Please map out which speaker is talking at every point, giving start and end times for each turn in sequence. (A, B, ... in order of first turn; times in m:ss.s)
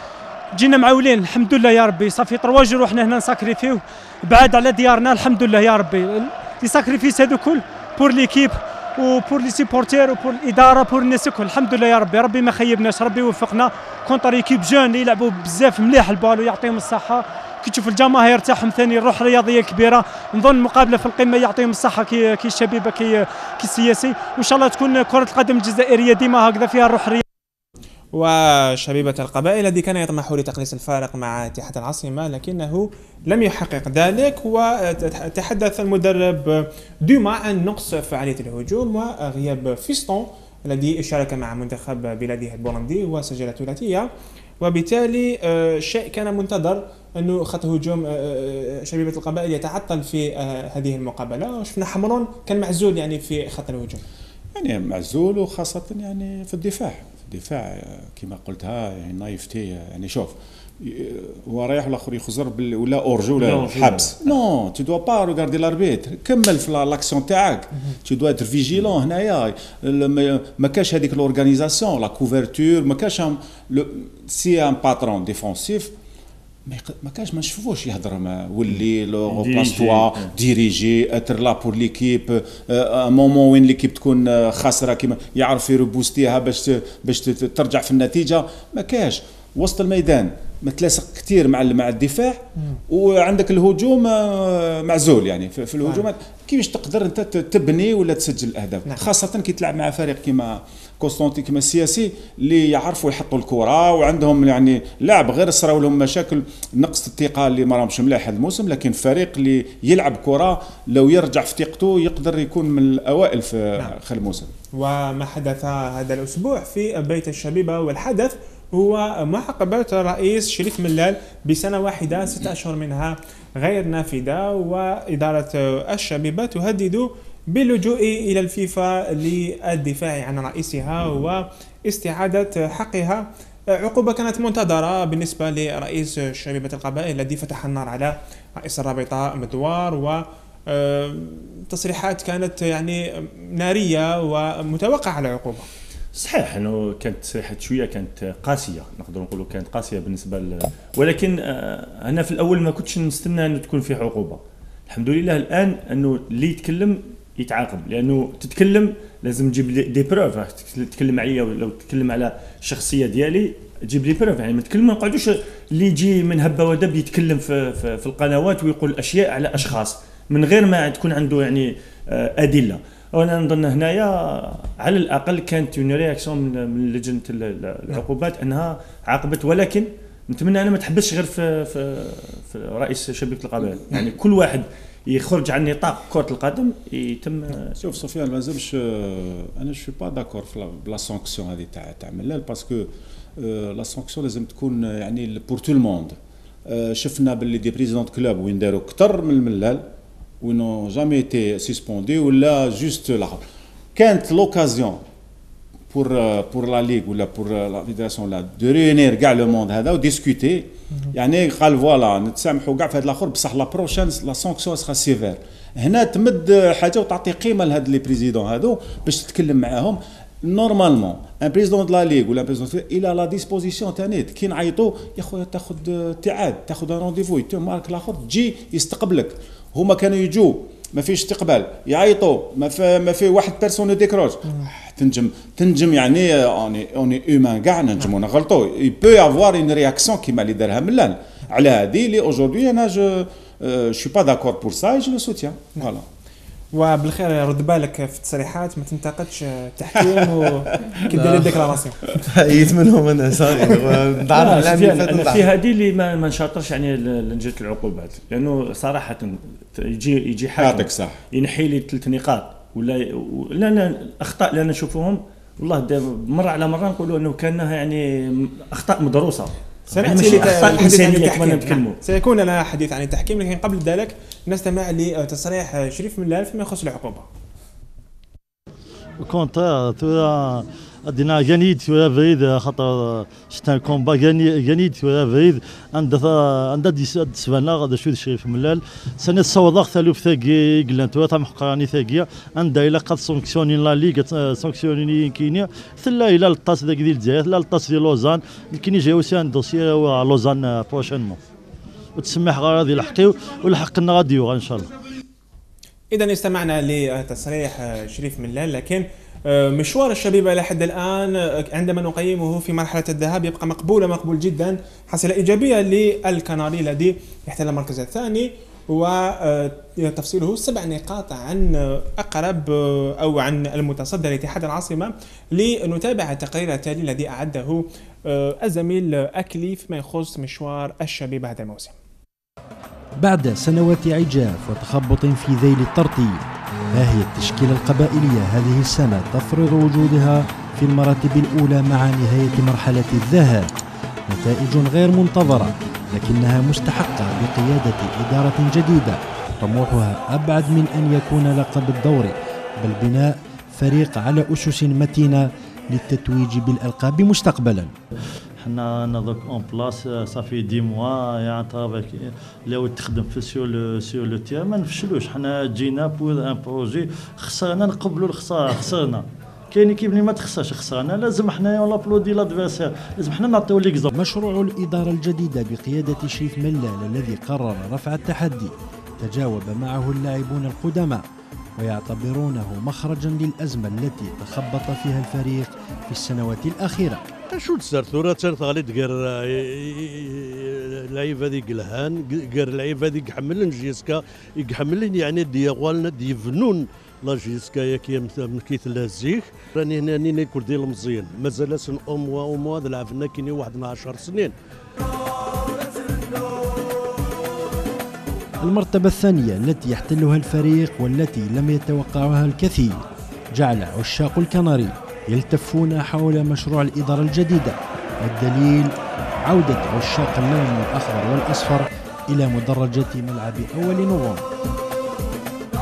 0:00.5-0:27.2 A
0:28.1-0:44.1 B
0:44.6-0:54.0 B
0:54.5-1:15.9 C
1:03.4-1:04.3 D
1:16.6-1:54.5 C
1:19.3-1:20.3 D
1:54.7-2:25.7 B
2:26.2-3:07.8 D
3:07.8-3:19.8 C
3:20.4-3:23.4 C
3:23.9-3:25.0 C
3:25.9-4:06.0 C
4:06.7-4:12.0 B
4:10.6-4:11.0 C
4:11.1-4:11.5 E
4:12.1-4:15.5 E
4:14.3-4:32.0 D
4:20.6-4:21.2 C
4:29.9-4:37.3 B
4:39.2-5:01.4 F
5:02.2-5:04.9 F
5:06.1-5:31.9 B
5:33.2-5:43.7 G
5:44.3-5:57.9 G
5:58.6-6:14.1 F
6:14.1-6:21.2 G
6:21.8-6:27.3 G
6:27.5-6:44.5 H
6:48.6-6:53.0 G
6:53.5-7:04.4 G